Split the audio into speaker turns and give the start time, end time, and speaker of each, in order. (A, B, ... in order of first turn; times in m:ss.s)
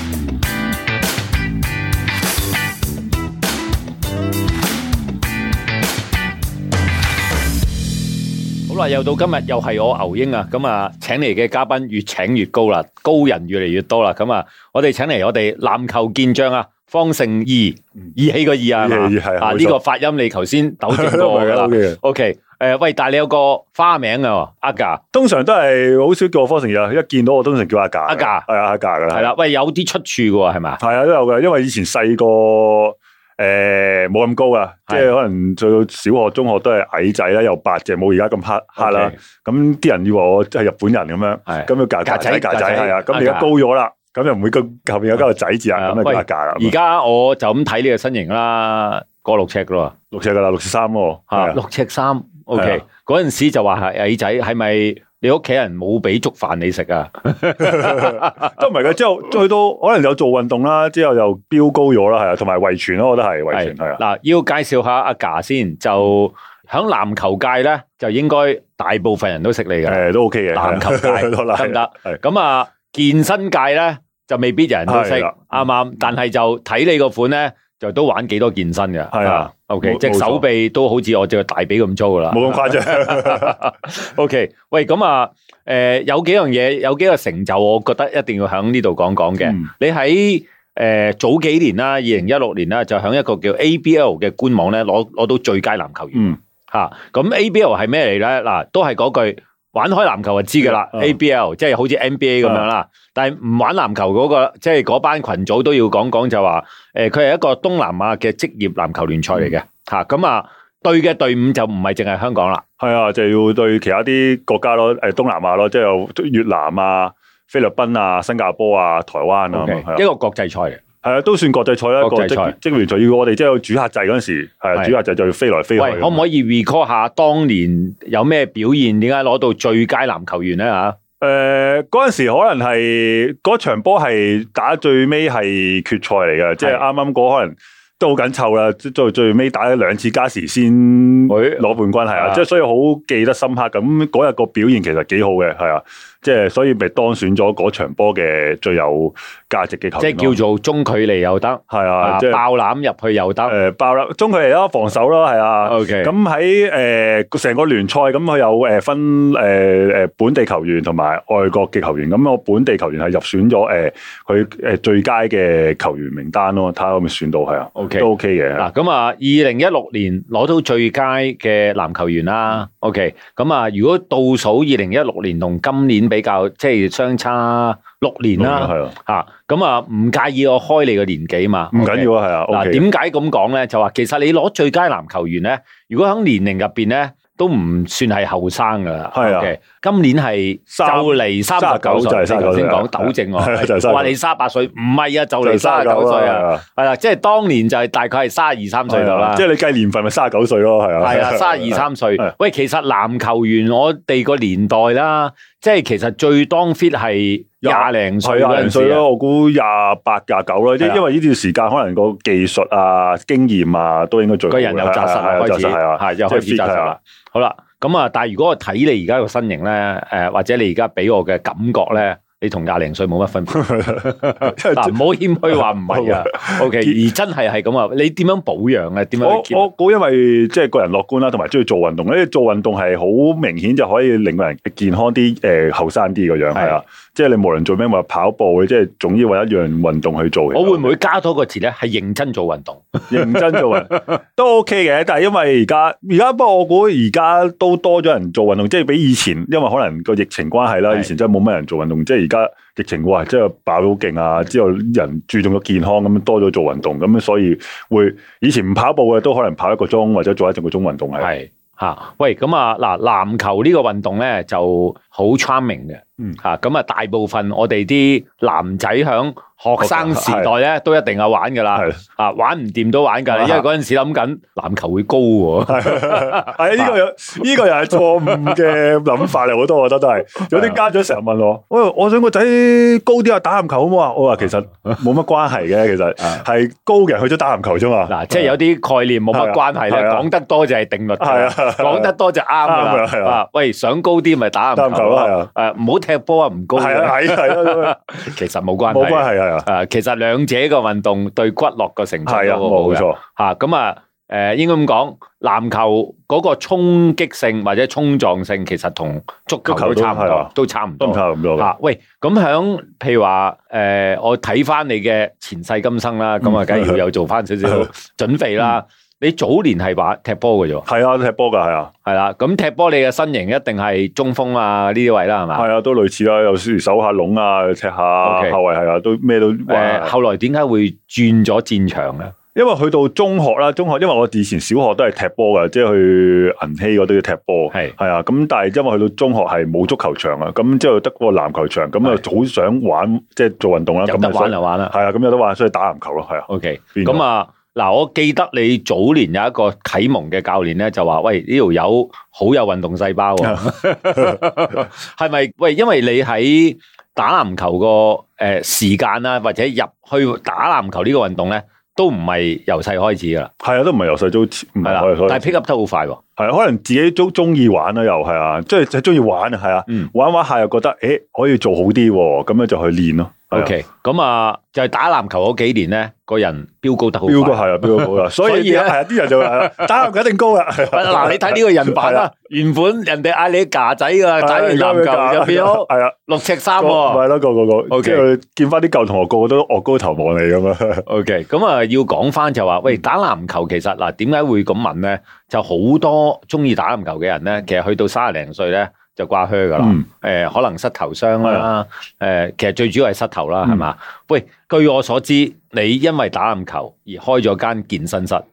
0:08.7-0:25.0 A
0:18.8-0:19.8 B
0:20.9-0:22.0 B
0:25.1-0:29.3 B
0:28.1-0:28.5 A
0:29.1-0:30.8 A
0:30.8-0:46.8 B
0:38.8-0:39.2 A
0:41.5-0:43.5 A
0:45.8-0:49.9 A
0:50.1-0:51.6 B
0:51.3-0:58.5 A
0:57.6-1:04.0 B
1:03.5-1:10.0 A
1:09.9-1:12.2 B
1:10.6-1:52.6 A
1:14.9-1:15.6 B
1:19.1-1:20.4 B
1:22.3-1:23.7 B
1:40.7-1:41.2 B
1:52.8-2:00.0 B
1:59.5-2:00.8 A
2:01.0-2:06.2 B
2:02.0-2:02.6 A
2:05.8-2:11.0 A
2:11.2-2:30.4 B
2:21.3-2:22.4 A
2:30.0-2:33.6 A
2:31.7-2:32.4 B
2:33.5-2:48.7 B
2:35.6-2:36.1 A
2:47.8-3:19.4 A
2:58.4-2:58.9 B
3:01.7-3:02.9 B
3:09.2-3:09.5 B
3:10.7-3:14.1 B
3:15.4-3:16.6 B
3:18.9-3:22.3 B
3:21.0-3:29.0 A
3:27.6-3:37.0 B
3:34.5-3:49.7 A
3:43.5-3:47.0 B
3:49.2-4:01.0 B
3:56.5-3:56.8 A
4:00.5-4:04.0 A
4:03.1-4:21.3 B
4:21.2-4:36.9 A
4:29.8-4:30.5 B
4:33.3-4:33.6 B
4:35.7-4:48.5 B
4:48.1-5:20.9 A
4:49.3-4:50.3 B
4:51.2-4:52.1 B
4:52.6-4:53.4 B
4:54.8-4:55.5 B
4:56.8-4:58.0 B
4:58.9-4:59.7 B
5:02.3-5:03.2 B
5:09.7-5:11.7 B
5:16.4-5:17.0 B
5:20.9-5:21.9 B
5:22.1-5:25.7 A
5:25.6-5:30.1 B
5:28.2-5:28.6 A
5:29.7-5:32.3 A
5:32.6-5:47.2 B
5:44.1-5:44.9 A
5:46.5-6:03.5 A
6:03.6-6:05.6 B
6:04.8-6:06.2 A
6:06.4-6:13.7 B
6:13.5-6:19.9 A
6:17.3-6:22.3 B
6:20.8-6:27.2 A
6:24.4-6:26.2 B
6:26.8-6:31.1 B
6:27.9-6:28.3 A
6:31.1-6:48.4 A
6:41.4-6:41.7 B